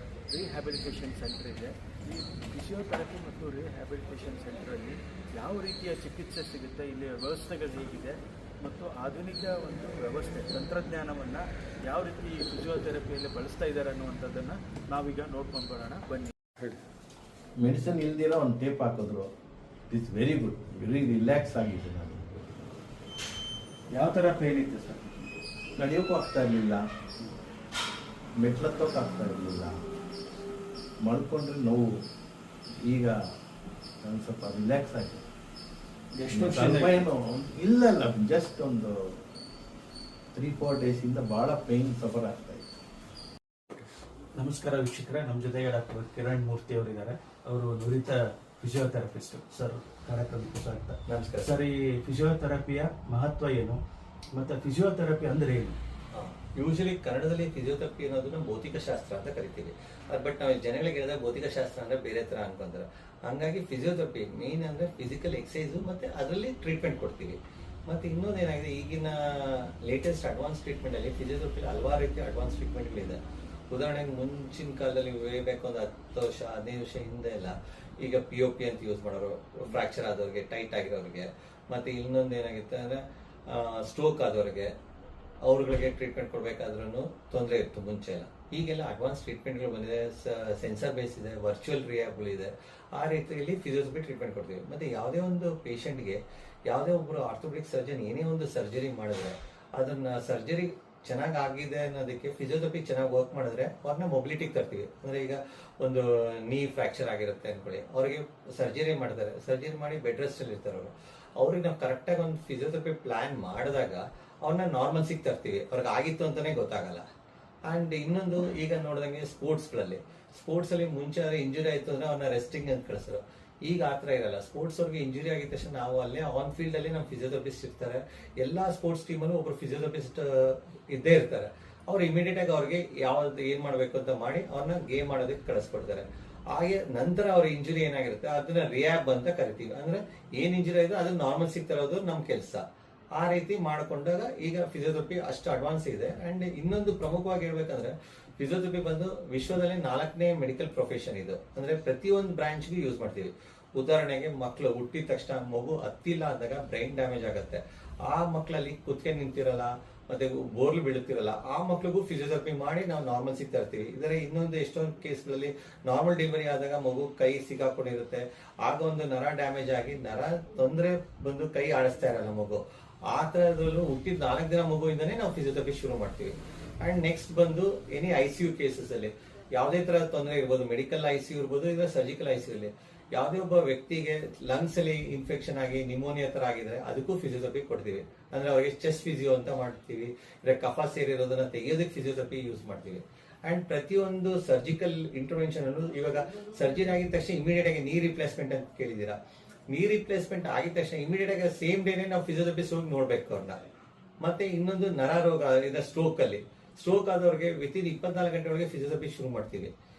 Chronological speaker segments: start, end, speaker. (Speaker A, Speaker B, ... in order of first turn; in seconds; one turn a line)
Speaker A: 0.3-16.8
Speaker B: 17.6-19.3
Speaker B: 19.9-22.3
Speaker A: 23.9-25.4
Speaker B: 25.8-26.8
Speaker B: 28.4-29.8
Speaker B: 31.0-32.0
Speaker B: 32.8-33.2
Speaker B: 34.0-35.2
Speaker A: 36.2-37.0
Speaker B: 36.3-39.1
Speaker B: 40.3-42.7
Speaker A: 44.4-53.8
Speaker C: 51.1-51.6
Speaker A: 54.4-55.8
Speaker C: 56.1-84.7
Speaker C: 85.4-117.0
Speaker C: 117.7-142.6
Speaker C: 143.2-199.2
Speaker C: 199.7-203.6
Speaker C: 204.2-209.7